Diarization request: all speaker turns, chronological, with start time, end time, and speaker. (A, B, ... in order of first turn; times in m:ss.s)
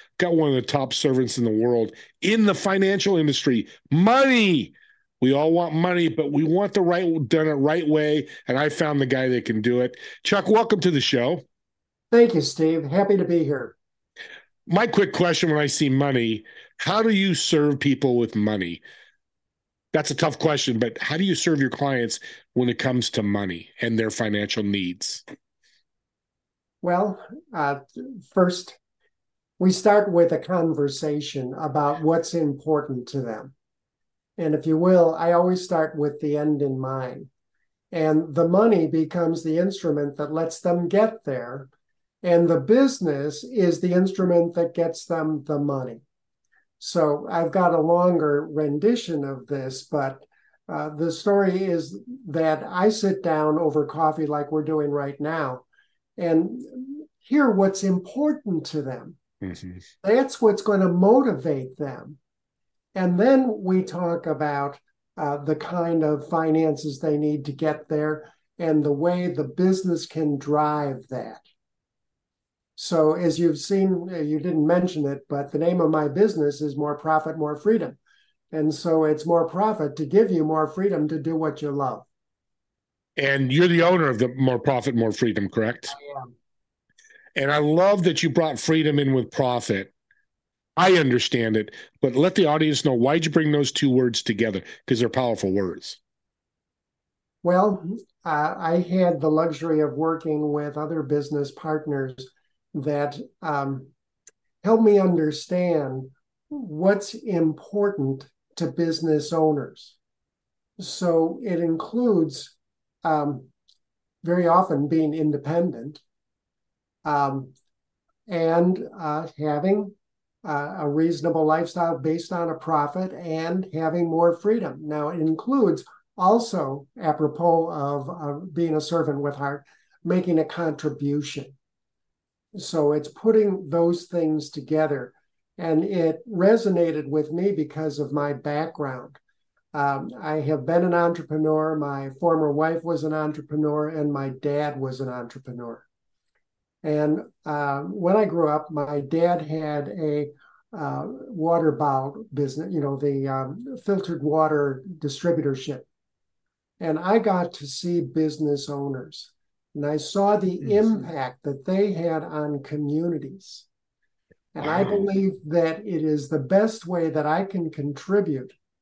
0:00.2-0:11.4 A
0:12.1-0:13.8 B
0:14.7-0:18.8 A
0:19.9-0:25.2 A
0:26.8-0:28.8 B
0:29.6-0:33.5 B
0:34.4-0:37.3 B
0:37.9-0:41.7 B
0:42.2-0:46.0 B
0:46.8-0:55.6 B
0:56.2-0:59.2 B
0:59.4-0:59.8 A
1:00.0-1:02.2 B
1:03.0-1:11.4 B
1:12.8-1:18.0 B
1:18.5-1:22.1 B
1:23.2-1:26.0 A
1:25.9-1:26.3 B
1:27.4-1:29.9 A
1:30.8-1:36.0 A
1:37.4-1:43.9 B
1:44.6-1:50.0 B
1:50.8-1:53.5 B
1:54.2-1:56.0 B
1:57.0-1:57.5 B
1:58.3-2:11.6 B
2:12.6-2:19.2 B
2:19.7-2:25.8 B
2:26.8-2:35.9 B
2:36.8-2:43.7 B
2:44.6-2:48.6 B
2:44.6-2:45.0 A